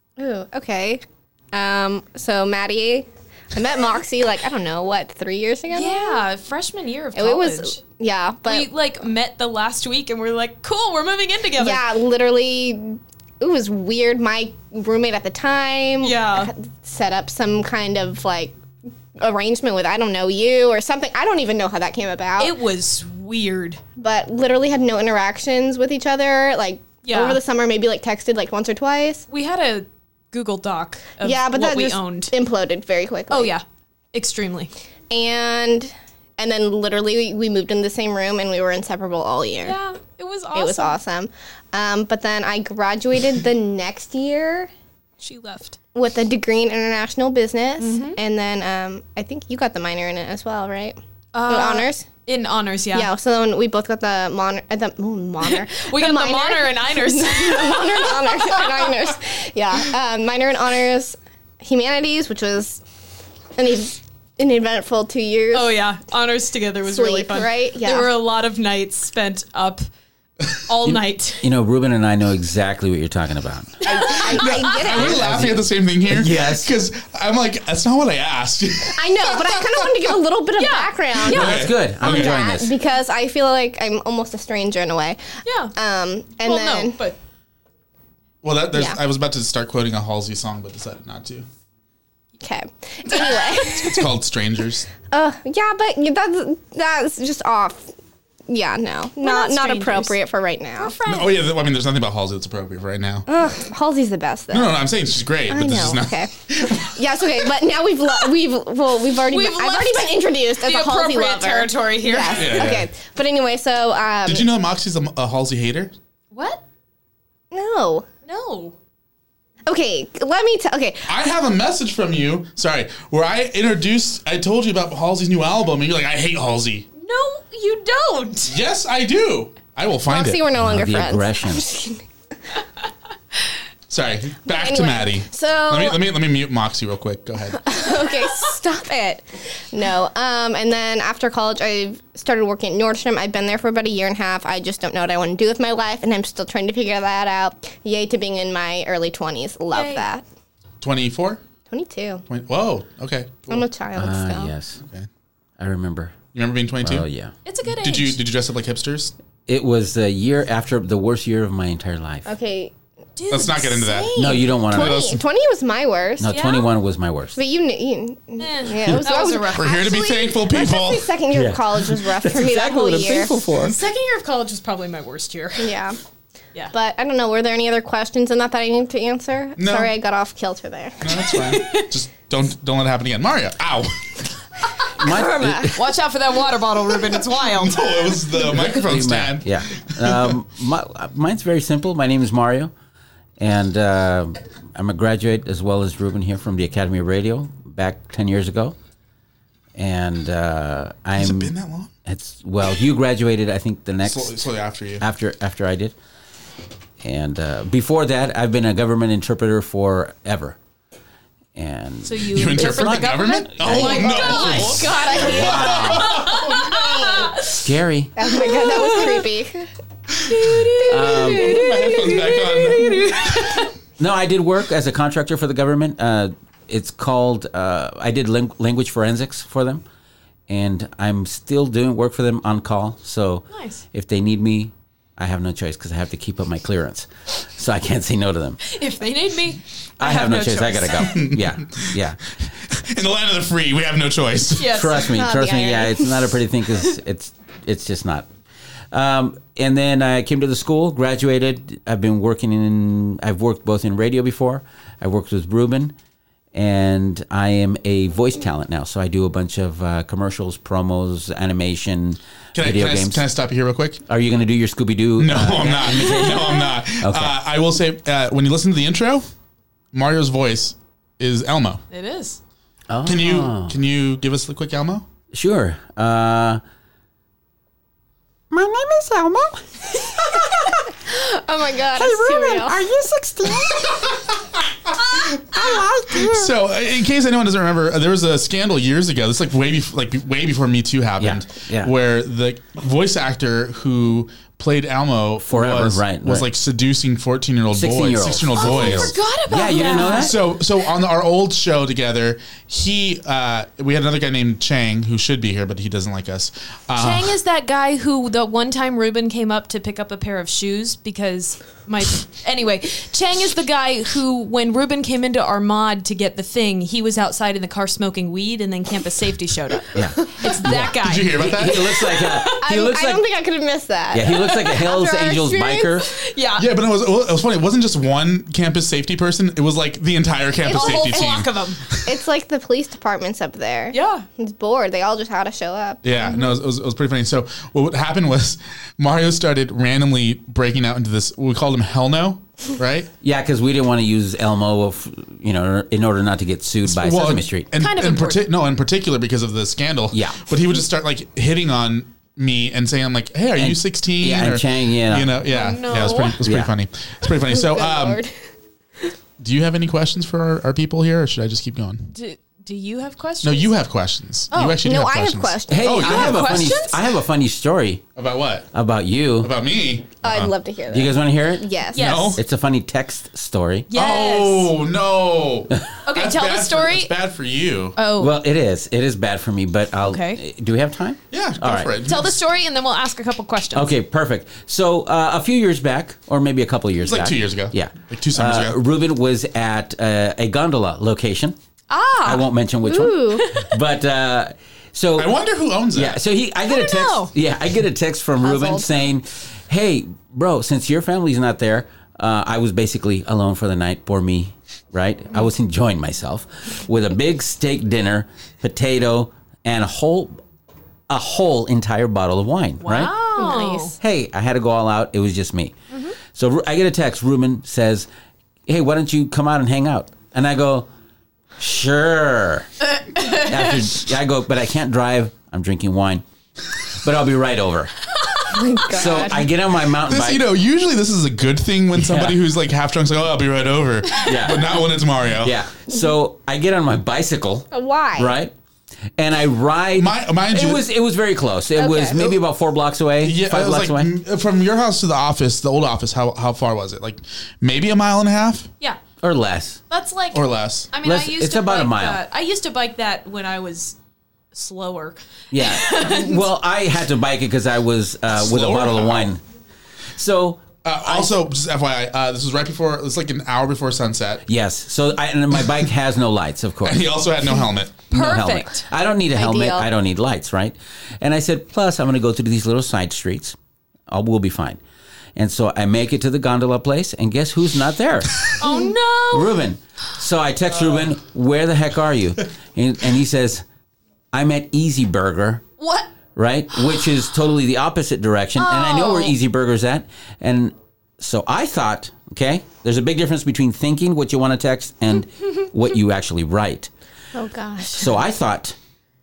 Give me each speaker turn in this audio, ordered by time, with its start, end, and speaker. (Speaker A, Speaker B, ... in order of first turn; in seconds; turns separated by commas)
Speaker A: 0.2-6.2, Speaker B: 5.7-7.8, Speaker A: 7.2-8.7, Speaker B: 8.5-11.8, Speaker A: 11.6-18.6, Speaker B: 16.0-16.5, Speaker A: 19.2-22.6, Speaker B: 22.4-23.8, Speaker A: 24.0-29.2, Speaker B: 27.0-27.4, Speaker B: 29.3-32.3, Speaker A: 31.2-33.5, Speaker B: 33.3-34.7, Speaker A: 35.1-39.8, Speaker B: 39.6-41.0, Speaker A: 40.5-44.7, Speaker B: 45.2-45.8, Speaker A: 45.9-52.1, Speaker B: 47.8-48.2, Speaker B: 51.3-53.1, Speaker A: 52.9-62.8, Speaker B: 55.4-58.9, Speaker A: 63.5-65.8, Speaker B: 65.5-69.8, Speaker A: 66.8-68.1, Speaker B: 70.7-71.4, Speaker C: 70.8-73.8, Speaker A: 73.8-75.6, Speaker B: 74.0-74.6, Speaker D: 74.1-79.4, Speaker C: 74.9-76.7, Speaker A: 78.9-85.2, Speaker B: 80.6-81.4, Speaker D: 81.2-82.3, Speaker C: 81.3-82.8, Speaker B: 85.4-85.7, Speaker A: 85.8-87.0, Speaker B: 86.4-87.2, Speaker D: 88.4-91.5, Speaker A: 92.4-94.1, Speaker D: 93.7-94.9, Speaker A: 95.1-97.9, Speaker A: 98.5-100.9, Speaker B: 99.2-100.2, Speaker B: 100.8-101.4, Speaker D: 101.0-103.3, Speaker A: 103.3-104.8, Speaker D: 104.5-106.9, Speaker A: 105.5-114.5, Speaker B: 109.3-112.7, Speaker D: 112.3-112.9, Speaker D: 114.2-115.9, Speaker B: 116.3-116.6, Speaker A: 117.5-118.0, Speaker B: 118.2-118.7, Speaker A: 119.7-121.1, Speaker D: 121.1-126.8, Speaker B: 127.0-128.5, Speaker D: 128.5-130.4, Speaker A: 130.1-132.0, Speaker C: 130.6-131.7, Speaker D: 133.9-137.6, Speaker A: 134.5-136.0, Speaker A: 137.6-150.2, Speaker B: 149.7-150.1, Speaker D: 150.8-151.4, Speaker A: 151.7-152.2, Speaker D: 152.3-153.6, Speaker A: 153.5-154.5, Speaker C: 153.9-154.8, Speaker D: 154.8-155.1, Speaker C: 155.6-156.2, Speaker D: 156.3-157.1, Speaker C: 156.8-157.3, Speaker B: 157.4-158.2, Speaker D: 157.7-159.1, Speaker C: 159.5-162.3, Speaker A: 162.2-162.7, Speaker B: 163.2-164.5, Speaker D: 163.3-164.2, Speaker C: 164.2-165.1, Speaker A: 164.7-166.5, Speaker D: 164.7-165.2, Speaker C: 166.2-167.4, Speaker B: 166.3-166.7, Speaker A: 167.3-173.4, Speaker B: 168.4-169.8, Speaker D: 169.5-171.1, Speaker C: 171.3-173.8, Speaker B: 173.6-175.7, Speaker A: 175.6-176.0, Speaker A: 176.7-181.1, Speaker D: 179.6-179.9, Speaker D: 181.0-184.1, Speaker B: 181.2-181.9, Speaker C: 185.0-185.8, Speaker A: 185.0-185.8, Speaker B: 185.7-187.8, Speaker D: 187.3-190.4, Speaker C: 188.5-192.7, Speaker C: 193.4-198.8, Speaker C: 199.8-201.5, Speaker D: 201.2-201.9, Speaker C: 202.1-204.3, Speaker D: 204.0-205.0, Speaker C: 205.0-205.9, Speaker C: 207.0-210.6, Speaker C: 211.5-216.2, Speaker B: 212.0-217.7, Speaker D: 212.3-217.4, Speaker A: 215.1-215.7, Speaker C: 217.5-218.1, Speaker A: 218.2-219.7, Speaker B: 218.3-219.2, Speaker B: 220.3-223.7, Speaker C: 220.9-221.5, Speaker A: 221.0-221.7, Speaker D: 221.3-223.6, Speaker C: 224.0-229.8, Speaker C: 230.5-238.6, Speaker B: 233.5-233.8, Speaker B: 238.6-241.1, Speaker C: 240.0-242.2, Speaker D: 241.0-242.0, Speaker D: 242.7-245.0, Speaker B: 244.6-245.1, Speaker C: 244.6-248.3, Speaker A: 245.1-246.3, Speaker C: 248.9-255.9, Speaker C: 256.5-263.2, Speaker D: 262.5-264.0, Speaker C: 264.1-267.4, Speaker D: 265.2-269.3, Speaker D: 269.9-271.8, Speaker B: 271.9-272.4, Speaker C: 272.9-273.7, Speaker D: 273.0-275.1, Speaker C: 275.3-276.6, Speaker C: 278.5-280.0, Speaker A: 281.0-282.8, Speaker E: 282.0-283.9, Speaker E: 285.6-286.5, Speaker D: 286.2-299.1, Speaker C: 291.2-291.9, Speaker C: 295.4-296.5, Speaker C: 297.7-300.4, Speaker B: 298.6-300.4, Speaker D: 300.0-307.3, Speaker B: 306.9-322.6, Speaker C: 319.9-323.2, Speaker D: 320.7-322.1, Speaker A: 322.6-325.8, Speaker C: 324.1-326.1, Speaker B: 324.3-324.9, Speaker B: 325.5-326.7, Speaker D: 326.6-332.0, Speaker A: 330.6-331.4, Speaker B: 330.7-331.8, Speaker A: 332.0-336.5, Speaker B: 333.9-334.2, Speaker D: 336.0-343.1, Speaker C: 343.2-347.7, Speaker D: 346.8-358.2, Speaker B: 347.8-348.5, Speaker C: 350.1-350.4, Speaker C: 353.6-355.4, Speaker B: 355.5-356.4, Speaker C: 356.4-356.7, Speaker A: 357.4-358.3, Speaker D: 359.4-362.1, Speaker B: 362.1-363.7, Speaker D: 363.4-366.7, Speaker B: 364.5-364.8, Speaker A: 364.7-366.5, Speaker C: 365.7-368.0, Speaker B: 366.0-367.0, Speaker D: 368.1-368.7, Speaker C: 368.7-369.5, Speaker D: 369.4-370.5, Speaker A: 370.2-372.2, Speaker C: 370.9-371.7, Speaker B: 371.9-372.4, Speaker D: 371.9-372.4, Speaker C: 372.4-373.9, Speaker B: 373.9-374.7, Speaker D: 373.9-378.0, Speaker B: 376.0-377.1, Speaker B: 377.9-378.3, Speaker C: 378.1-381.9, Speaker B: 380.0-380.4, Speaker D: 381.3-382.4, Speaker B: 382.0-383.9, Speaker C: 383.7-391.6, Speaker D: 387.0-388.8, Speaker B: 391.9-392.5, Speaker C: 392.2-395.4, Speaker A: 392.8-393.5, Speaker B: 393.4-393.7, Speaker D: 395.1-396.2, Speaker C: 395.9-410.4, Speaker B: 396.7-397.3, Speaker A: 398.4-399.0, Speaker C: 411.1-413.3, Speaker B: 412.8-413.9, Speaker A: 413.4-414.0, Speaker C: 414.0-415.7, Speaker C: 416.2-418.1, Speaker C: 418.7-420.9, Speaker C: 421.6-422.7, Speaker B: 422.9-423.7, Speaker C: 423.3-426.2, Speaker C: 426.9-427.9, Speaker A: 428.5-429.5, Speaker C: 428.9-430.4, Speaker D: 430.0-435.6, Speaker C: 431.9-432.4, Speaker C: 434.2-434.8, Speaker C: 435.4-438.5, Speaker A: 437.7-438.3, Speaker C: 439.2-444.1, Speaker D: 439.9-440.9, Speaker A: 441.8-442.4, Speaker D: 443.2-448.7, Speaker C: 449.2-449.8, Speaker B: 449.9-453.9, Speaker D: 450.3-450.9, Speaker C: 451.0-452.2, Speaker B: 454.5-456.4, Speaker C: 455.5-459.4, Speaker D: 458.3-459.3, Speaker C: 460.1-461.3, Speaker D: 460.8-464.4, Speaker C: 464.5-467.0, Speaker D: 466.8-468.1, Speaker C: 468.1-473.6, Speaker B: 468.1-468.9, Speaker A: 469.3-469.9, Speaker C: 474.1-474.8, Speaker C: 475.4-478.5, Speaker B: 478.6-479.6, Speaker C: 479.3-483.6, Speaker C: 484.3-485.6, Speaker B: 485.8-486.1, Speaker C: 486.4-496.9, Speaker B: 488.6-489.3, Speaker A: 497.3-498.1, Speaker C: 497.9-498.8